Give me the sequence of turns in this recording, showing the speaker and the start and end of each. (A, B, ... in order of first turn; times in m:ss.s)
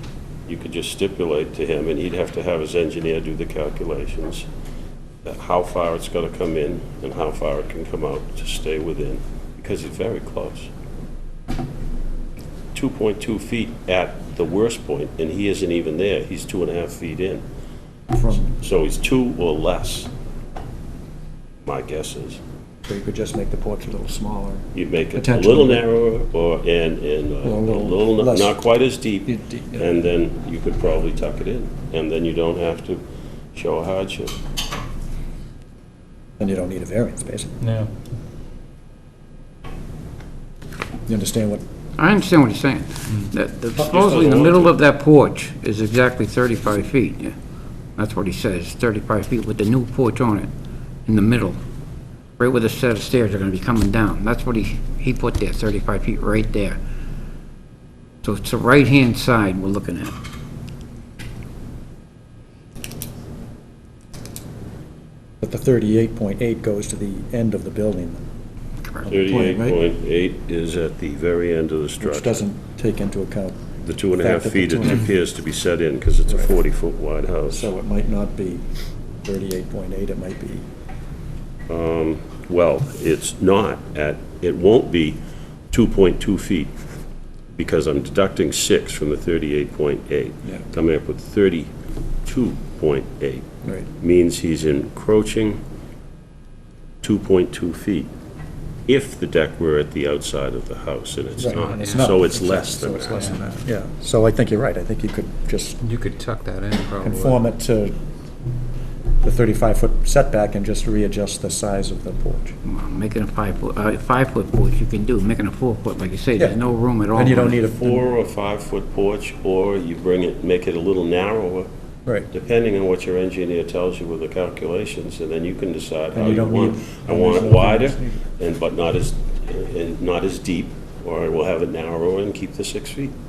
0:00.5-0:04.5 A
0:05.2-0:10.7 A
0:12.7-0:17.4 A
0:18.1-0:18.5 B
0:18.6-0:20.1 A
0:21.6-0:22.4 A
0:22.8-0:25.8 B
0:24.7-0:33.0 A
0:27.4-0:28.6 B
0:29.3-0:29.8 B
0:33.5-0:34.3 A
0:36.4-0:37.5 B
0:37.6-0:37.9 C
0:41.1-0:41.6 B
0:42.0-0:47.3 D
0:43.8-0:44.7 A
0:48.0-0:50.5 D
0:51.0-0:51.6 D
0:52.4-0:56.8 D
0:58.2-1:00.1 D
1:05.4-1:08.2 B
1:08.8-1:09.1 D
1:09.0-1:09.8 B
1:09.1-1:12.5 A
1:12.0-1:13.6 B
1:13.8-1:17.7 A
1:14.2-1:15.2 B
1:16.3-1:16.5 B
1:17.5-1:18.6 B
1:19.2-1:20.6 B
1:21.7-1:25.2 A
1:25.7-1:26.7 A
1:27.5-1:31.7 A
1:32.2-1:35.6 A
1:37.0-1:38.1 A
1:38.9-1:43.4 A
1:41.4-1:45.8 B
1:41.5-1:42.1 C
1:45.8-1:47.4 C
1:47.0-1:47.9 B
1:49.2-1:52.5 B
1:52.6-1:57.6 D
1:57.1-1:58.0 B
1:57.7-2:01.7 A
2:02.3-2:13.1 A
2:06.1-2:08.2 B